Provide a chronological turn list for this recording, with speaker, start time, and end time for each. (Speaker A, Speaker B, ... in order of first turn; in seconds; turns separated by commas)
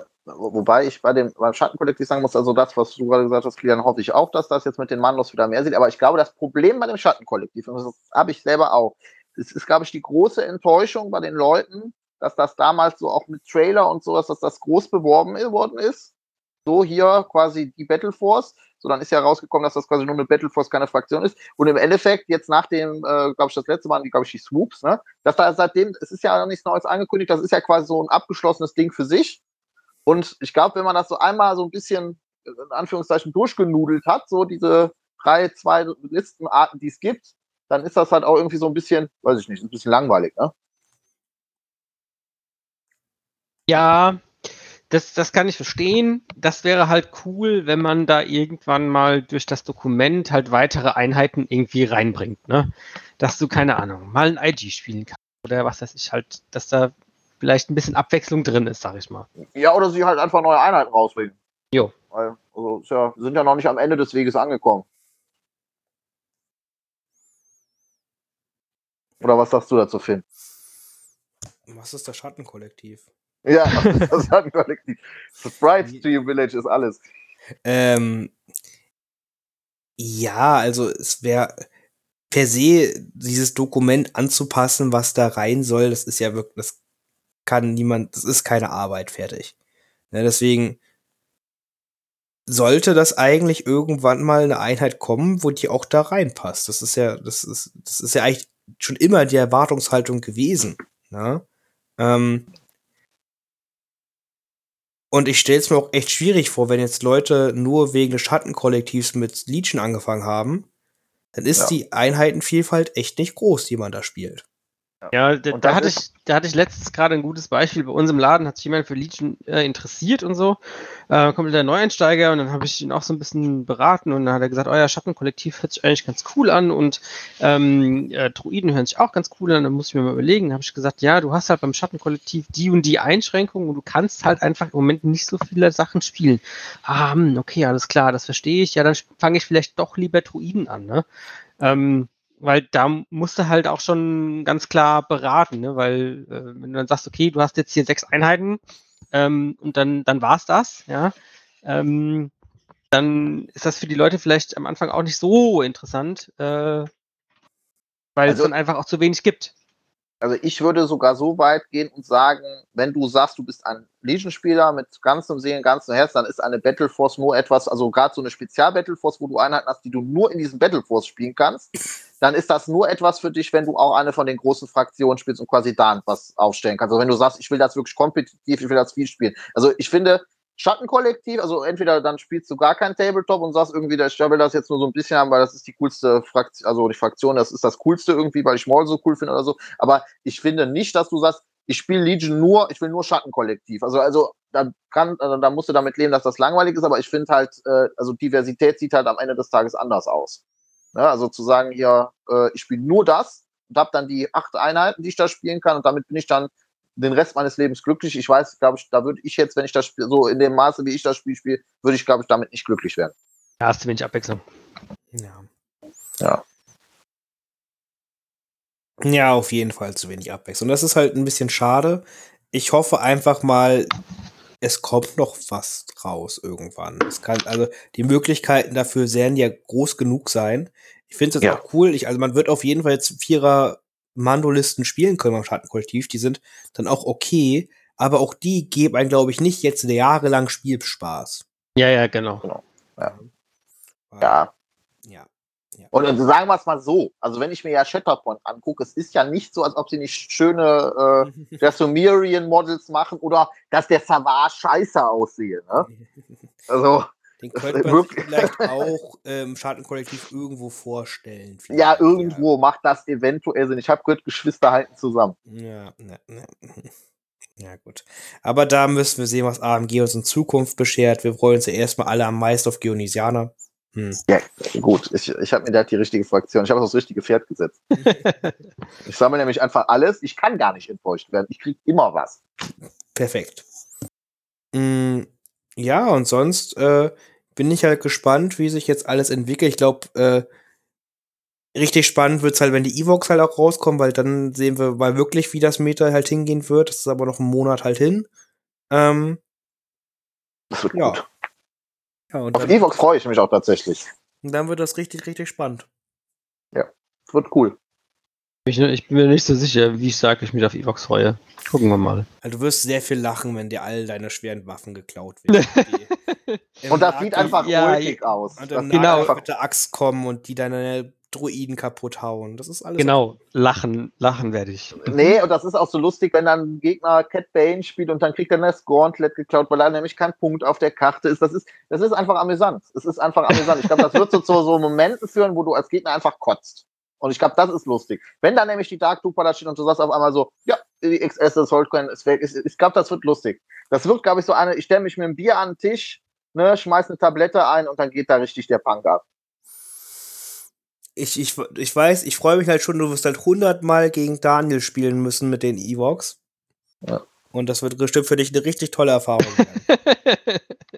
Speaker A: 0.3-16.1, Speaker A: 16.6-29.4, Speaker A: 30.1-40.5, Speaker B: 43.7-44.2, Speaker B: 44.9-59.3, Speaker A: 59.5-61.4, Speaker A: 62.1-64.8, Speaker A: 69.2-70.2, Speaker C: 71.7-73.0, Speaker A: 73.4-77.0, Speaker B: 73.8-74.0, Speaker C: 77.6-78.3, Speaker C: 80.0-81.7, Speaker C: 82.3-86.8, Speaker C: 87.5-89.5, Speaker C: 90.1-90.8, Speaker C: 92.5-101.4, Speaker C: 102.0-102.5, Speaker C: 105.1-110.7, Speaker C: 111.3-114.4, Speaker A: 115.0-116.0, Speaker B: 115.1-120.6, Speaker B: 121.1-141.0, Speaker B: 141.6-148.6, Speaker B: 149.1-151.1, Speaker B: 151.6-152.3, Speaker B: 152.9-156.9, Speaker B: 158.2-159.5, Speaker A: 160.2-171.7, Speaker A: 172.2-200.4, Speaker A: 200.9-213.1, Speaker B: 213.6-214.4, Speaker C: 215.1-215.5, Speaker C: 219.0-223.9, Speaker C: 224.6-241.4, Speaker B: 241.8-242.4, Speaker A: 242.4-243.1, Speaker C: 244.1-244.4, Speaker A: 244.2-244.5, Speaker C: 245.1-245.9, Speaker A: 245.9-255.9, Speaker C: 251.2-251.7, Speaker C: 255.8-256.4, Speaker A: 256.7-258.8, Speaker C: 257.4-262.4, Speaker A: 261.7-265.4, Speaker C: 265.5-266.9, Speaker C: 267.6-274.2, Speaker A: 274.3-277.8, Speaker B: 277.9-278.5, Speaker A: 279.1-282.4, Speaker C: 283.1-283.6, Speaker C: 284.7-290.4, Speaker C: 291.7-298.3, Speaker C: 298.9-299.4, Speaker A: 300.7-301.2, Speaker C: 300.9-301.2, Speaker C: 302.3-302.8, Speaker A: 302.5-304.1, Speaker C: 304.4-305.9, Speaker A: 306.7-307.8, Speaker B: 308.7-312.3, Speaker C: 312.4-316.1, Speaker B: 315.5-316.6, Speaker C: 316.8-317.6, Speaker A: 316.9-319.4, Speaker B: 317.4-318.2, Speaker C: 318.6-323.2, Speaker B: 318.9-319.3, Speaker B: 323.0-325.4, Speaker A: 325.0-349.2, Speaker B: 333.6-334.1, Speaker C: 351.1-356.4, Speaker C: 357.5-359.8, Speaker B: 359.9-360.8